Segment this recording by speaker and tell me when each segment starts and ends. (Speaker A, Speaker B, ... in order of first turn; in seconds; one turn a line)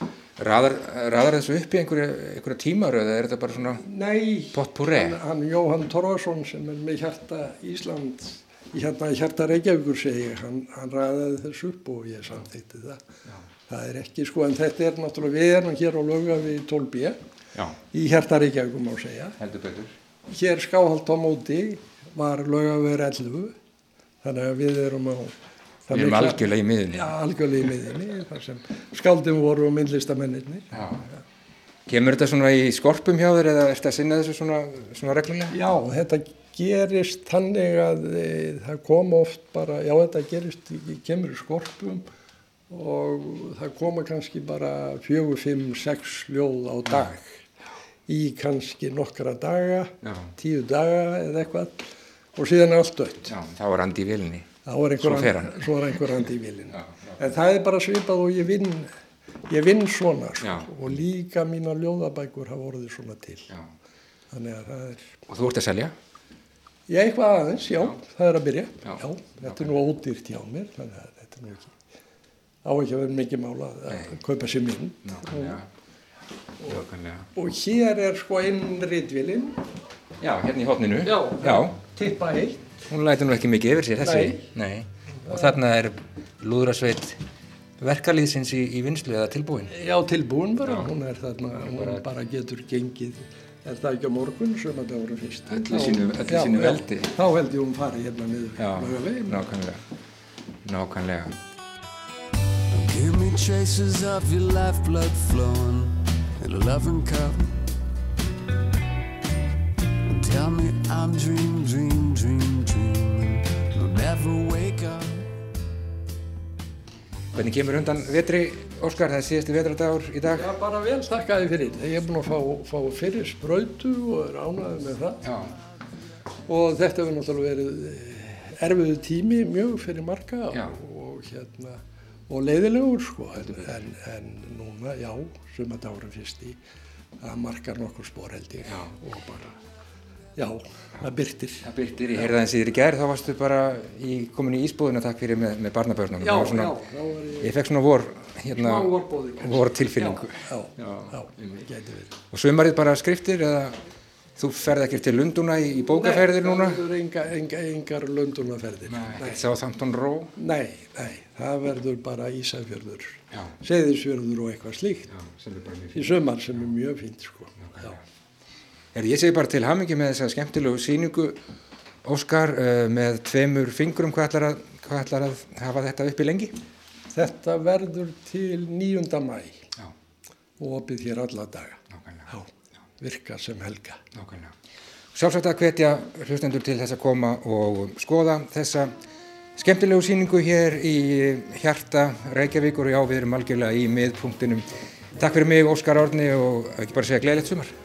Speaker A: 0.4-3.8
Speaker B: 3.8-13.0
Speaker A: 4.5-5.2
Speaker B: 13.7-17.2
Speaker B: 17.9-19.4
Speaker A: 19.4-19.9
Speaker B: 20.3-23.5
Speaker B: 24.2-25.3
Speaker B: 25.9-31.2
Speaker A: 25.9-27.1
Speaker A: 30.7-31.0
Speaker A: 31.9-35.6
Speaker B: 35.5-42.0
Speaker B: 42.7-47.4
Speaker B: 48.1-53.3
Speaker A: 50.0-50.3
Speaker A: 53.2-55.6
Speaker B: 54.6-58.9
Speaker B: 59.5-63.5
Speaker A: 60.4-60.9
Speaker B: 64.3-65.2
Speaker A: 65.3-65.9
Speaker B: 66.9-71.8
Speaker A: 68.8-69.7
Speaker B: 72.6-75.6
Speaker A: 75.0-75.7
Speaker B: 76.6-79.6
Speaker A: 76.7-77.3
Speaker A: 80.2-81.8
Speaker B: 81.0-82.8
Speaker A: 82.9-87.2
Speaker B: 84.0-84.4
Speaker B: 85.2-85.5
Speaker A: 87.8-89.7
Speaker B: 89.7-99.5
Speaker A: 91.7-92.0
Speaker A: 95.5-97.1
Speaker A: 98.6-99.8
Speaker A: 100.6-101.3
Speaker C: 102.7-107.6
Speaker C: 110.1-115.3
Speaker A: 117.3-120.5
Speaker B: 120.3-125.2
Speaker A: 125.2-125.5
Speaker B: 126.5-136.6
Speaker B: 137.2-139.5
Speaker B: 140.4-142.3
Speaker A: 141.6-146.7
Speaker B: 146.2-147.6
Speaker A: 147.4-151.6
Speaker B: 148.5-152.1
Speaker A: 152.3-153.8
Speaker A: 154.4-156.8
Speaker B: 155.8-159.4
Speaker A: 158.9-160.3
Speaker B: 160.4-165.1
Speaker A: 165.1-166.1
Speaker B: 165.9-168.0
Speaker A: 167.6-168.0
Speaker A: 168.9-171.4
Speaker A: 172.0-176.6
Speaker B: 177.1-179.6
Speaker B: 180.6-182.5
Speaker A: 181.9-182.3
Speaker B: 183.0-184.0
Speaker A: 184.1-184.5
Speaker A: 185.1-188.9
Speaker A: 189.6-194.7
Speaker A: 195.2-197.7